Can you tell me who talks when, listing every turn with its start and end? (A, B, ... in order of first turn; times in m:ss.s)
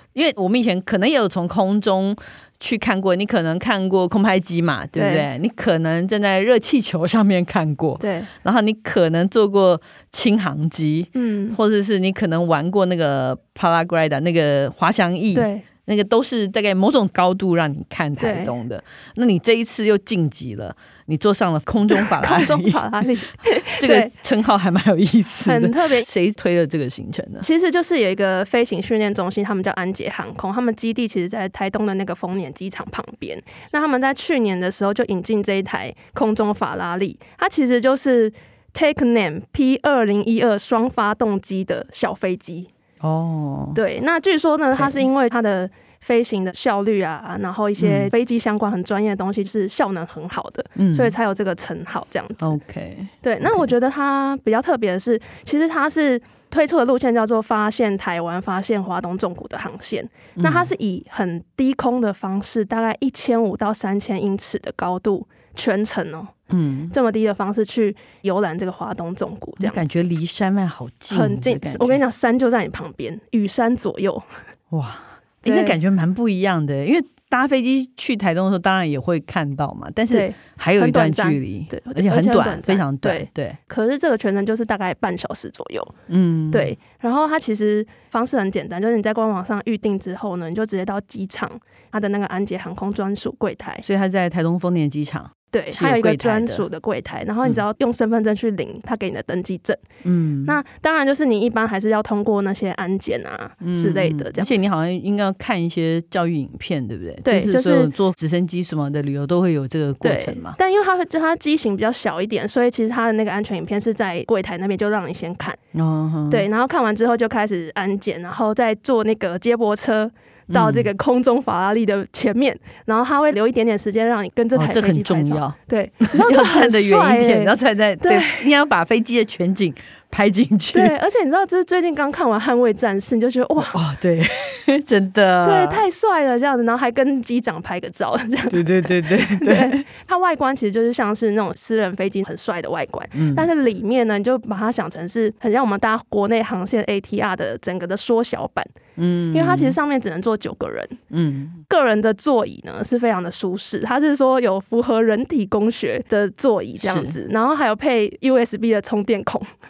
0:00.1-0:22.8 A
0:04.9-0:05.2 B
0:08.0-0:08.3 B
0:11.1-0:11.6 B
0:15.3-0:15.6 B
0:18.2-0:18.5 B
0:21.9-0:24.1 B
0:23.7-0:27.4 A
0:25.4-0:26.1 B
0:27.4-0:42.7 B
0:43.0-0:43.8 A
0:43.7-0:52.5 B
0:47.8-0:48.1 A
0:50.8-0:51.1 A
0:52.4-0:53.6 A
0:53.2-1:06.3 B
1:00.4-1:00.7 A
1:06.5-1:06.9 A
1:06.9-1:09.9 B
1:09.6-1:12.0 A
1:11.1-1:14.3 B
1:14.7-1:23.6 A
1:15.4-1:15.8 B
1:20.1-1:25.9 B
1:26.1-1:26.7 A
1:26.5-1:33.8 B
1:33.8-1:36.6 A
1:35.5-1:39.8 B
1:40.0-1:40.6 A
1:40.4-1:44.5 B
1:43.6-1:50.6 A
1:47.2-1:47.9 B
1:50.0-1:55.6 B
1:55.7-1:56.4 A
1:56.3-2:08.5 B
2:00.5-2:00.9 A
2:04.5-2:10.9 A
2:10.7-2:13.8 B
2:13.6-2:15.8 A
2:15.4-2:28.7 B
2:18.5-2:19.8 A
2:23.1-2:23.5 A
2:29.0-2:29.8 A
2:29.3-2:31.0 B
2:31.1-2:31.6 A
2:31.7-2:39.5 B
2:36.8-2:37.2 A